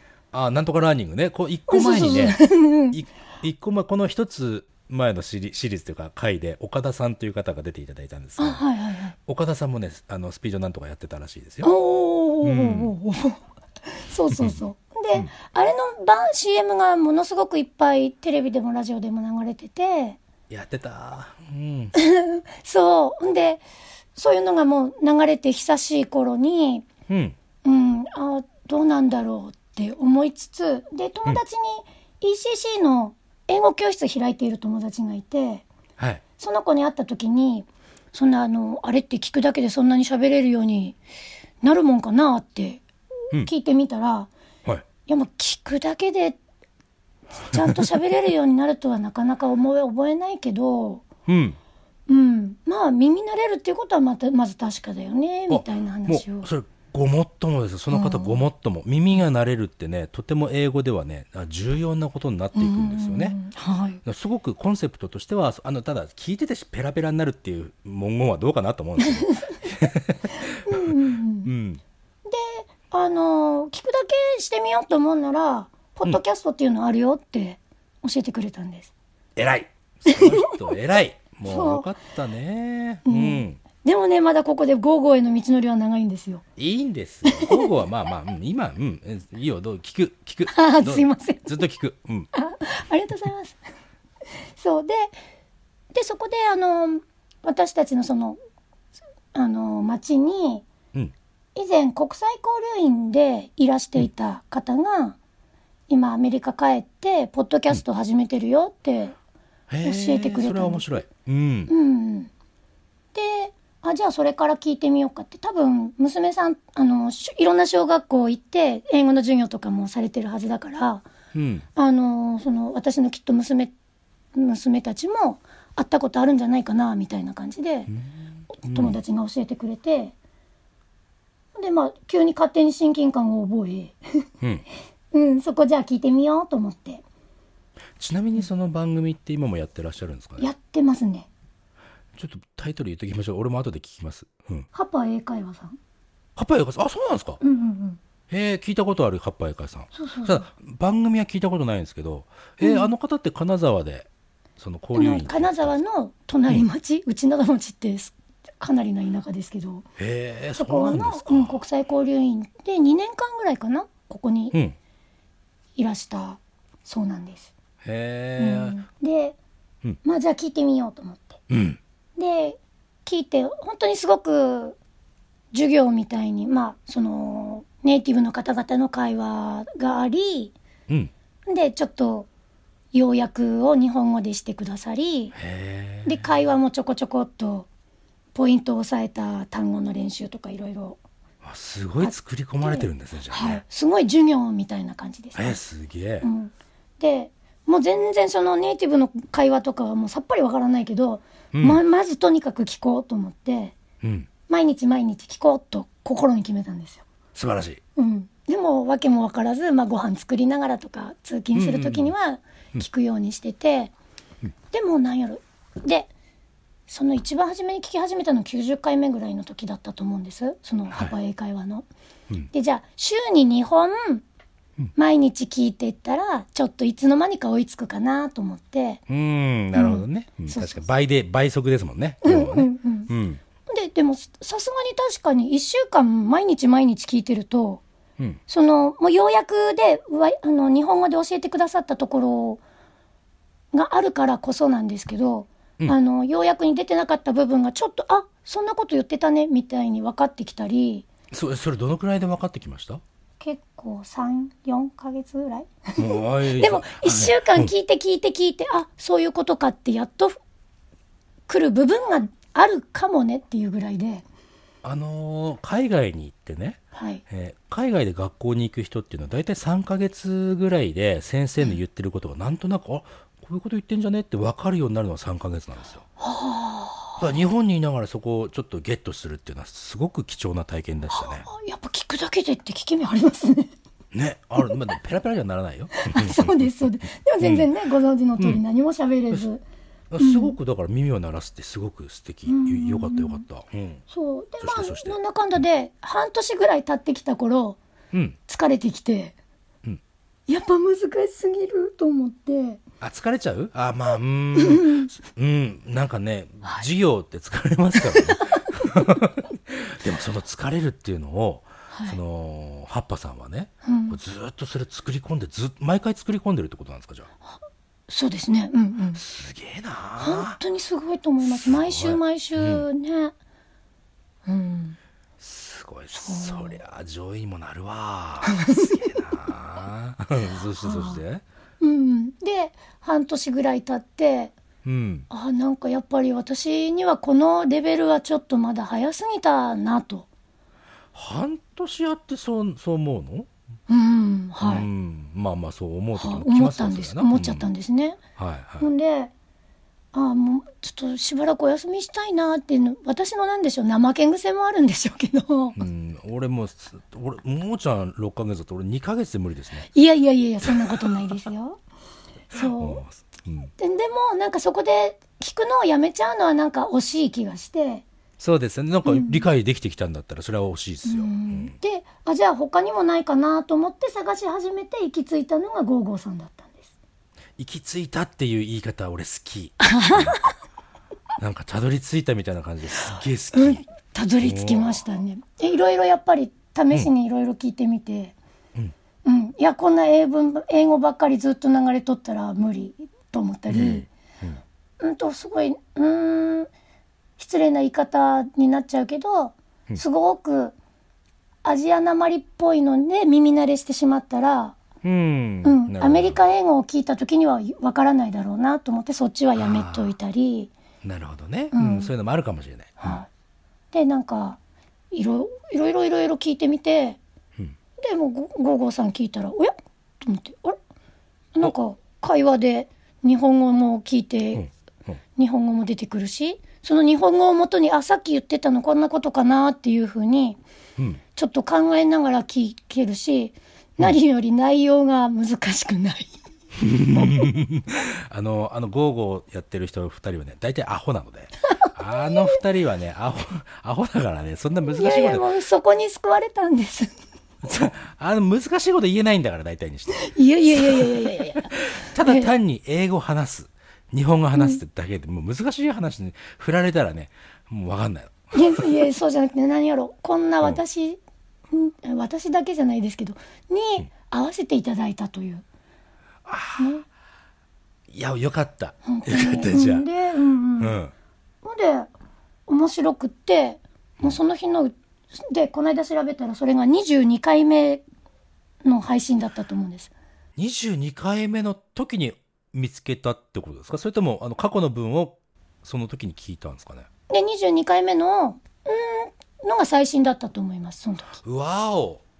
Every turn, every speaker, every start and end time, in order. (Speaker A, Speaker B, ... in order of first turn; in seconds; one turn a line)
Speaker A: 0.3-8.6
Speaker B: 1.7-3.0
Speaker B: 8.4-9.2
Speaker A: 9.2-11.7
Speaker B: 11.6-20.2
Speaker A: 12.4-12.9
Speaker A: 14.3-14.6
Speaker A: 20.5-21.9
Speaker B: 21.9-23.6
Speaker B: 24.2-26.9
Speaker A: 27.1-27.4
Speaker B: 27.6-35.6
Speaker B: 36.4-41.0
Speaker B: 41.6-44.3
Speaker B: 45.1-46.4
Speaker B: 47.4-51.1
Speaker A: 47.5-47.8
Speaker A: 51.3-51.6
Speaker B: 52.1-56.5
Speaker A: 55.5-63.4
Speaker B: 57.9-58.4
Speaker B: 62.6-64.0
Speaker A: 64.0-71.8
Speaker B: 69.0-69.6
Speaker B: 70.6-71.5
Speaker B: 72.3-78.9
Speaker A: 79.4-83.6
Speaker B: 80.1-80.5
Speaker B: 81.5-81.9
Speaker B: 83.1-86.4
Speaker A: 86.6-92.3
Speaker B: 87.3-87.6
Speaker B: 90.5-91.5
Speaker B: 92.3-93.6
Speaker B: 94.6-95.1
Speaker B: 95.9-98.4
Speaker B: 99.3-100.7
Speaker B: 101.5-105.2
Speaker B: 105.9-109.2
Speaker A: 109.7-111.7
Speaker B: 109.8-111.0
Speaker B: 111.7-112.3
Speaker B: 113.1-121.1
Speaker A: 121.3-121.7
Speaker B: 121.8-123.7
Speaker B: 124.3-127.9
Speaker A: 127.9-129.0
Speaker B: 128.5-130.1
Speaker B: 131.6-134.0
Speaker B: 135.1-137.0
Speaker A: 138.0-140.5
Speaker B: 140.4-141.3
Speaker A: 142.2-144.7
Speaker B: 144.7-145.8
Speaker A: 146.4-147.4
Speaker B: 147.4-148.0
Speaker A: 148.3-155.8
Speaker B: 149.9-150.5
Speaker B: 152.6-152.9
Speaker B: 154.9-159.9
Speaker A: 160.0-161.6
Speaker B: 160.6-164.6
Speaker B: 165.8-167.5
Speaker A: 167.8-168.8
Speaker B: 168.4-169.4
Speaker B: 170.0-171.4
Speaker A: 171.5-171.8
Speaker B: 172.2-174.8
Speaker B: 175.5-180.5
Speaker B: 181.5-182.3
Speaker B: 182.9-185.4
Speaker A: 185.3-186.3
Speaker B: 186.1-187.7
Speaker B: 188.3-191.0
Speaker A: 191.4-193.6
Speaker B: 192.0-195.6
Speaker A: 195.4-196.3
Speaker B: 196.2-203.8
Speaker A: 201.5-201.8
Speaker A: 204.0-204.3
Speaker B: 204.5-207.1
Speaker A: 207.3-207.8
Speaker B: 208.0-213.9
Speaker A: 211.5-212.1
Speaker B: 214.7-216.1
Speaker B: 216.9-221.9
Speaker B: 222.5-224.2
Speaker B: 224.9-229.0
Speaker A: 229.1-233.4
Speaker B: 229.7-230.8
Speaker B: 232.2-233.1
Speaker B: 233.7-237.8
Speaker B: 238.5-242.6
Speaker B: 243.7-251.1
Speaker A: 251.3-253.0
Speaker B: 253.4-260.4
Speaker A: 256.0-257.7
Speaker B: 261.5-264.2
Speaker A: 264.8-276.1
Speaker B: 266.9-267.2
Speaker B: 276.2-277.2
Speaker A: 277.2-281.5
Speaker B: 281.1-283.7
Speaker A: 284.1-286.7
Speaker B: 285.9-289.6
Speaker A: 287.4-287.7
Speaker A: 290.1-294.0
Speaker B: 290.2-290.6
Speaker B: 292.5-293.4
Speaker B: 294.1-297.8
Speaker A: 294.6-295.2
Speaker A: 298.1-298.4
Speaker B: 298.5-299.4
Speaker B: 300.5-302.8
Speaker A: 303.0-317.3
Speaker B: 304.6-305.1
Speaker B: 308.1-308.9
Speaker B: 311.9-312.2
Speaker B: 313.8-314.2
Speaker B: 318.1-319.2
Speaker A: 319.2-320.6
Speaker B: 320.2-323.4
Speaker A: 321.4-322.9
Speaker B: 324.5-325.0
Speaker A: 325.4-331.4
Speaker B: 326.1-326.8
Speaker B: 328.5-329.1
Speaker B: 330.8-331.2
Speaker B: 331.8-334.5
Speaker A: 334.9-335.3
Speaker B: 335.3-340.3
Speaker A: 341.1-343.5
Speaker B: 343.9-344.9
Speaker A: 344.6-347.7
Speaker B: 346.2-348.2
Speaker A: 348.4-348.9
Speaker B: 348.8-349.3
Speaker B: 350.1-355.8
Speaker A: 355.8-359.9
Speaker B: 359.9-361.8
Speaker A: 360.6-361.4
Speaker B: 362.5-363.0
Speaker A: 362.5-363.7
Speaker B: 363.8-368.1
Speaker A: 368.4-371.8
Speaker B: 369.1-369.5
Speaker B: 371.1-376.9
Speaker A: 377.6-380.4
Speaker B: 379.8-380.5
Speaker A: 381.4-383.8
Speaker B: 383.5-388.4
Speaker A: 384.4-385.0
Speaker B: 389.2-394.1
Speaker A: 393.7-394.6
Speaker B: 395.0-396.7
Speaker B: 397.4-400.8
Speaker B: 401.6-404.8
Speaker A: 405.0-406.4
Speaker B: 405.6-410.7
Speaker A: 409.6-410.1
Speaker A: 411.0-413.2
Speaker B: 411.7-412.1
Speaker B: 413.0-413.3
Speaker B: 413.9-414.6
Speaker B: 415.1-417.2
Speaker B: 418.0-420.8
Speaker B: 421.6-424.7
Speaker A: 424.6-425.2
Speaker B: 425.4-430.6
Speaker B: 431.4-436.3
Speaker A: 436.8-445.5
Speaker B: 437.2-437.5
Speaker B: 441.8-442.6
Speaker B: 444.9-447.1
Speaker A: 447.6-459.0
Speaker B: 450.1-452.5
Speaker B: 454.6-454.8
Speaker B: 458.5-461.2
Speaker B: 461.7-465.6
Speaker A: 466.4-466.9
Speaker B: 466.8-467.0
Speaker A: 468.1-470.1
Speaker B: 469.1-471.0
Speaker A: 470.8-471.1
Speaker B: 471.6-472.1
Speaker B: 472.7-478.0
Speaker B: 478.8-480.1
Speaker A: 480.6-487.1
Speaker B: 487.3-491.4
Speaker A: 491.4-492.2